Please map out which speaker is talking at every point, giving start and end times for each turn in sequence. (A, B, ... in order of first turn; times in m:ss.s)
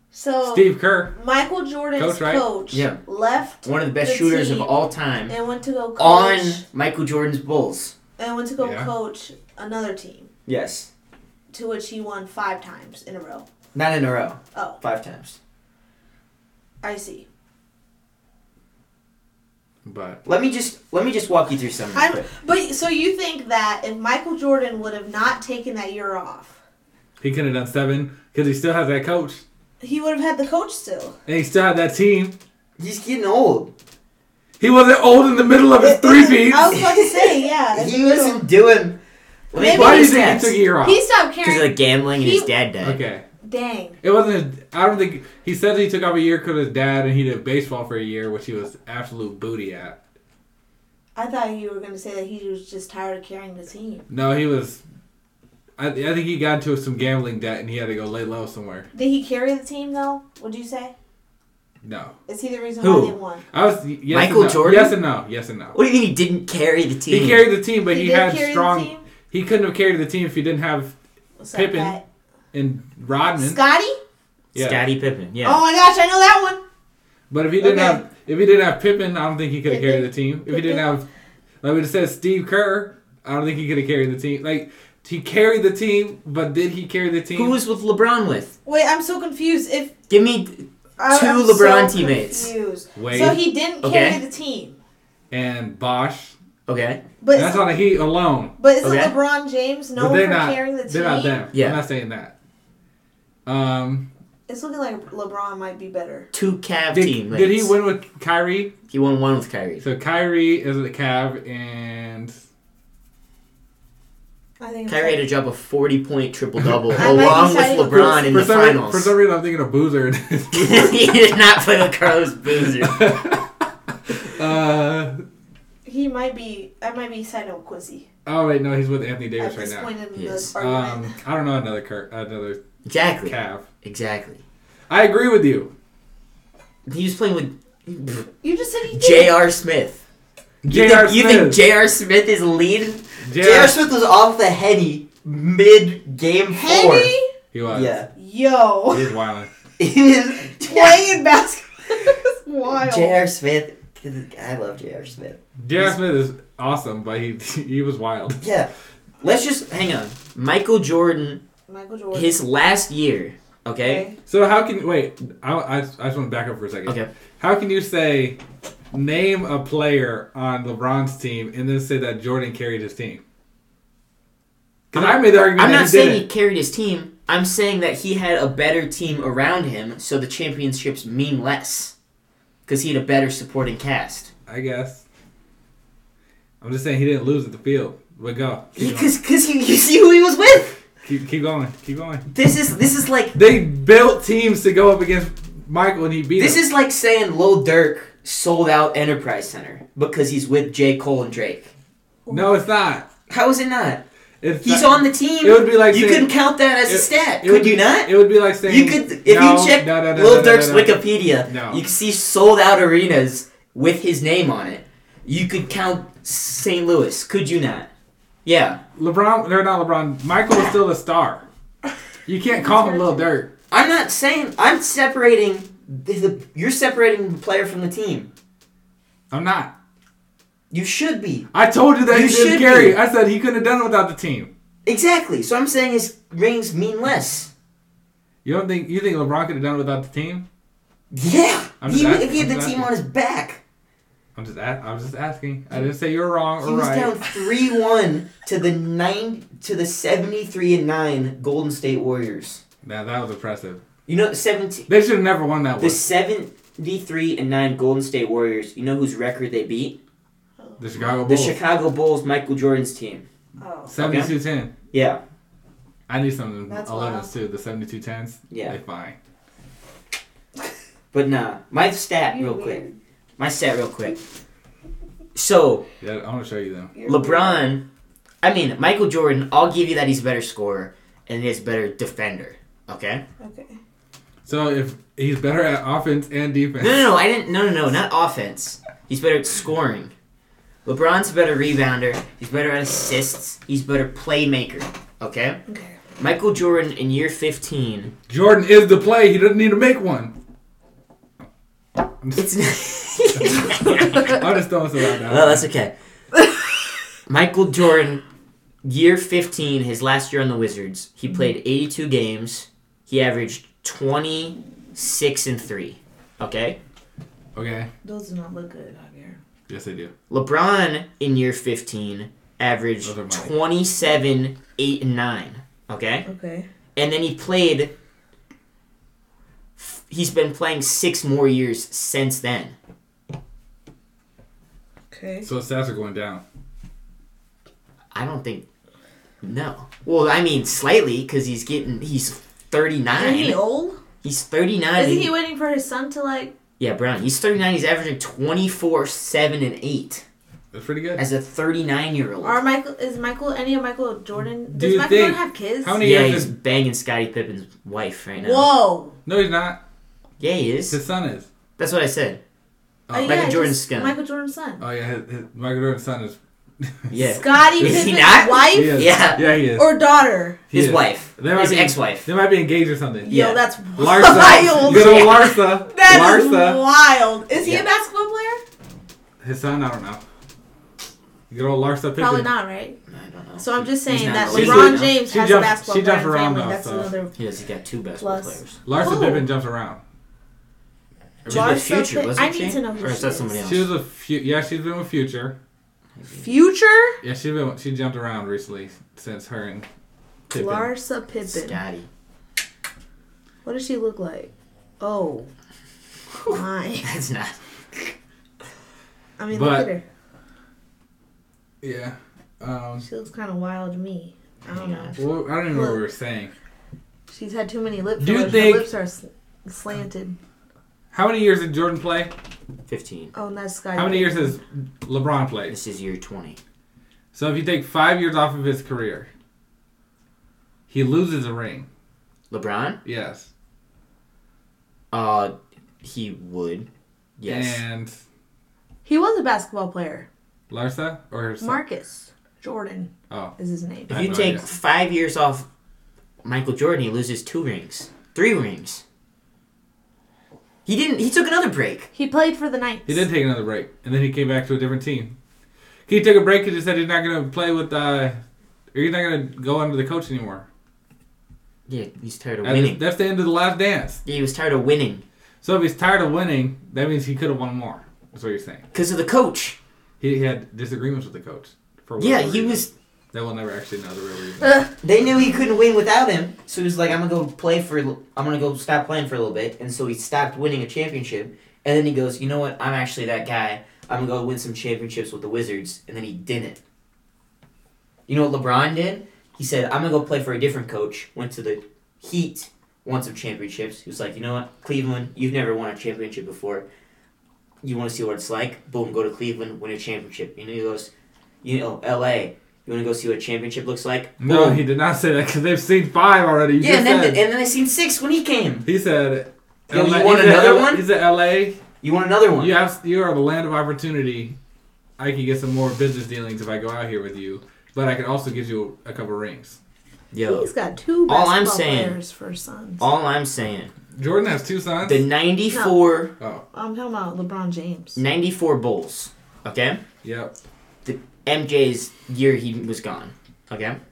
0:00.1-0:04.7 A
0:00.4-0:01.1 B
0:02.0-0:02.4 B
0:02.7-0:03.0 C
0:03.6-0:05.4 C
0:05.3-0:06.6 A
0:06.0-0:07.9 C
0:08.2-0:10.3 A
0:08.6-0:08.9 B
0:10.5-0:10.9 C
0:11.5-0:13.4 A
0:13.7-0:15.4 C
0:16.8-0:17.2 A
0:19.8-0:20.2 B
0:20.2-0:22.3 C
0:21.9-0:26.6 A
0:27.2-0:29.4 B
0:29.8-0:31.1 A
0:31.2-0:32.3 B
0:32.8-0:33.7 C
0:34.6-0:36.8 B
0:35.8-0:38.4 A
0:36.7-0:39.0 C
0:39.5-0:40.6 C
0:39.5-0:42.5 A
0:39.7-0:41.0 B
0:41.4-0:43.0 C
0:42.8-0:43.2 B
0:43.4-0:44.0 A
0:44.0-0:50.0 B
0:51.2-0:54.1 A
0:54.1-0:54.8 B
0:55.8-0:58.9 B
0:58.9-1:00.9 A
1:01.8-1:02.1 B
1:02.3-1:03.4 A
1:02.8-1:03.1 C
1:03.5-1:05.8 B
1:04.1-1:05.0 C
1:05.7-1:07.4 C
1:07.1-1:10.9 B
1:07.8-1:09.0 A
1:11.4-1:12.0 A
1:11.5-1:12.0 B
1:12.5-1:13.6 B
1:13.4-1:14.0 A
1:14.5-1:14.8 B
1:14.5-1:15.6 C
1:15.4-1:16.6 A
1:17.3-1:21.0 B
1:17.6-1:18.0 A
1:19.6-1:20.9 A
1:21.6-1:27.6 B
1:27.3-1:28.5 C
1:28.6-1:29.9 A
1:30.1-1:32.5 C
1:31.0-1:34.8 A
1:33.0-1:33.4 B
1:33.8-1:34.2 C
1:35.3-1:36.3 B
1:36.7-1:37.0 C
1:37.2-1:37.7 A
1:37.3-1:38.5 B
1:38.6-1:41.5 A
1:38.8-1:39.1 C
1:40.0-1:42.3 B
1:41.5-1:41.8 C
1:43.4-1:44.1 B
1:44.5-1:46.3 A
1:46.3-1:47.7 C
1:46.9-1:48.7 B
1:48.9-1:49.8 C
1:49.8-1:52.3 B
1:54.6-1:55.2 A
1:54.9-1:59.1 C
1:56.6-1:57.2 B
1:56.9-1:58.5 A
1:57.9-2:01.0 B
2:00.5-2:03.1 C
2:02.8-2:05.2 B
2:05.8-2:08.0 A
2:08.2-2:09.9 B
2:09.4-2:11.1 A
2:10.1-2:10.5 C
2:10.5-2:12.6 B
2:12.8-2:14.4 C
2:13.2-2:13.7 B
2:14.9-2:15.7 B
2:16.9-2:18.3 C
2:18.4-2:19.3 A
2:18.9-2:20.0 C
2:20.6-2:21.6 B
2:20.7-2:27.1 C
2:23.2-2:23.8 B
2:26.5-2:27.3 A
2:27.5-2:28.0 B
2:27.7-2:28.1 C
2:28.1-2:29.1 A
2:28.9-2:29.5 B
2:29.8-2:31.1 C
2:30.6-2:33.2 A
2:32.7-2:35.9 C
2:35.6-2:38.4 B
2:38.4-2:38.7 C
2:39.2-2:41.4 C
2:41.7-2:42.4 A
2:42.1-2:44.1 C
2:43.8-2:44.2 A
2:44.3-2:48.4 B
2:48.9-2:53.2 B
2:54.9-3:01.9 C
2:54.9-2:56.2 B
3:02.6-3:04.3 C
3:04.5-3:05.0 B
3:06.6-3:09.1 B
3:08.8-3:10.8 C
3:11.0-3:12.2 B
3:12.3-3:13.3 C
3:13.3-3:16.6 B
3:16.4-3:21.7 C
3:22.2-3:22.6 A
3:22.3-3:23.1 B
3:23.3-3:24.0 C
3:24.4-3:26.3 B
3:24.6-3:37.9 C
3:26.8-3:31.8 B
3:38.4-3:38.8 C
3:39.0-3:41.4 B
3:42.3-3:43.5 B
3:42.4-3:43.3 A
3:43.7-3:48.3 C
3:49.3-3:49.7 B
3:50.7-3:51.5 C
3:51.5-3:54.5 B
3:52.1-3:53.0 C
3:54.8-3:57.5 C
3:58.4-4:00.4 B
4:01.1-4:03.6 C
4:01.8-4:02.9 B
4:04.4-4:07.1 B
4:06.6-4:12.6 C
4:12.8-4:13.8 B
4:14.0-4:14.9 C
4:14.9-4:16.0 B
4:15.8-4:20.0 C
4:20.8-4:21.6 B
4:21.2-4:23.2 C
4:23.6-4:23.9 A
4:23.9-4:24.7 B
4:24.0-4:24.3 C
4:24.9-4:25.2 C
4:26.1-4:29.2 B
4:26.7-4:27.3 A
4:28.5-4:28.8 C
4:31.1-4:32.8 C
4:32.3-4:32.9 A
4:33.4-4:34.2 C
4:35.3-4:35.8 C
4:36.0-4:36.9 B
4:36.9-4:37.7 A
4:37.0-4:37.8 C
4:38.4-4:43.2 C
4:43.4-4:43.8 A
4:44.4-4:47.1 B
4:46.8-4:50.1 C
4:50.8-4:55.6 C
4:55.7-4:56.0 A
4:56.2-4:58.1 C
4:58.3-5:00.3 B
5:02.2-5:02.5 B
5:02.4-5:04.4 C
5:03.4-5:05.7 B
5:05.3-5:05.9 C
5:07.3-5:08.2 C
5:08.8-5:16.8 C
5:17.5-5:17.9 B
5:18.0-5:19.4 A
5:19.7-5:20.1 B
5:20.3-5:26.2 C
5:23.0-5:23.5 B
5:26.2-5:26.7 A
5:27.0-5:27.9 C
5:29.8-5:32.7 C
5:35.1-5:35.5 A
5:35.4-5:36.4 B
5:38.1-5:38.7 C
5:39.4-5:43.6 C
5:43.2-5:44.0 A
5:44.2-5:45.3 C
5:44.9-5:46.5 A
5:46.8-5:50.2 C
5:50.7-5:51.2 B
5:51.2-5:52.6 C
5:52.4-5:56.0 A
5:54.7-5:56.5 B
5:56.0-5:58.7 C
5:58.4-5:59.2 A
5:59.2-5:59.8 B
6:00.4-6:01.0 C
6:00.9-6:01.5 B
6:01.8-6:02.4 C
6:03.1-6:03.5 B
6:03.1-6:04.8 A
6:03.2-6:04.1 C
6:04.8-6:07.2 B
6:07.1-6:09.4 C
6:07.2-6:09.1 A
6:07.8-6:08.1 B
6:08.7-6:09.9 B
6:09.7-6:10.6 A
6:10.7-6:13.4 B
6:10.7-6:12.3 C
6:13.2-6:18.6 A
6:13.3-6:13.6 C
6:14.0-6:16.8 B
6:14.2-6:15.4 C
6:17.6-6:17.8 C
6:19.4-6:20.2 B
6:21.5-6:22.5 B
6:22.2-6:23.0 A
6:23.1-6:25.2 C
6:23.6-6:27.3 A
6:24.5-6:27.1 B
6:27.3-6:28.8 C
6:28.2-6:29.4 A
6:28.8-6:30.0 B
6:31.4-6:31.8 B
6:31.5-6:33.6 A
6:31.5-6:33.9 C
6:33.6-6:35.5 B
6:36.2-6:36.5 C
6:36.3-6:37.2 A
6:37.2-6:39.8 B
6:40.5-6:40.9 B
6:40.5-6:41.8 A
6:41.4-6:42.1 C
6:43.6-6:45.5 A
6:46.4-6:48.1 C
6:46.5-6:47.1 A
6:49.4-6:50.0 A
6:49.5-6:49.9 B
6:51.8-6:53.0 B
6:53.0-6:55.2 A
6:54.7-6:55.2 C
6:55.2-6:56.5 B
6:55.7-6:56.0 A
6:57.3-7:00.4 A
6:58.2-6:58.9 B
7:01.1-7:02.3 B
7:02.9-7:03.3 C
7:03.3-7:04.6 A
7:03.9-7:05.8 B
7:05.7-7:06.6 C
7:07.3-7:09.3 B
7:10.9-7:11.9 B
7:12.5-7:13.0 C
7:13.0-7:13.5 B
7:15.1-7:16.9 C
7:17.4-7:17.8 C
7:17.4-7:18.1 B
7:19.0-7:20.3 A
7:20.7-7:21.8 B
7:21.6-7:24.2 A
7:23.3-7:23.5 B
7:24.1-7:24.6 B
7:24.1-7:25.6 C
7:26.4-7:29.0 C
7:30.8-7:32.1 C
7:32.1-7:33.2 A
7:33.0-7:35.4 B
7:36.1-7:38.4 B
7:38.9-7:40.6 B
7:41.9-7:43.0 C
7:42.6-7:44.2 B
7:44.2-7:45.2 C
7:45.6-7:48.8 B
7:48.9-7:49.8 C
7:50.2-7:54.8 B
7:52.2-7:52.9 C
7:55.0-8:06.8 C
8:08.3-8:16.8 C
8:17.8-8:21.1 C
8:21.6-8:24.8 C
8:24.4-8:27.4 B
8:26.8-8:28.8 C
8:28.8-8:31.8 B
8:29.9-8:31.0 C
8:32.0-8:32.8 C
8:32.6-8:34.6 B
8:35.2-8:39.8 B
8:40.3-8:40.7 C
8:40.4-8:43.0 A
8:41.3-8:42.2 C
8:43.0-8:43.9 C
8:44.1-8:45.2 B
8:45.0-8:46.3 C
8:45.7-8:46.0 A
8:46.7-8:48.2 A
8:48.2-8:50.0 C
8:50.2-8:50.5 B
8:51.0-8:54.0 C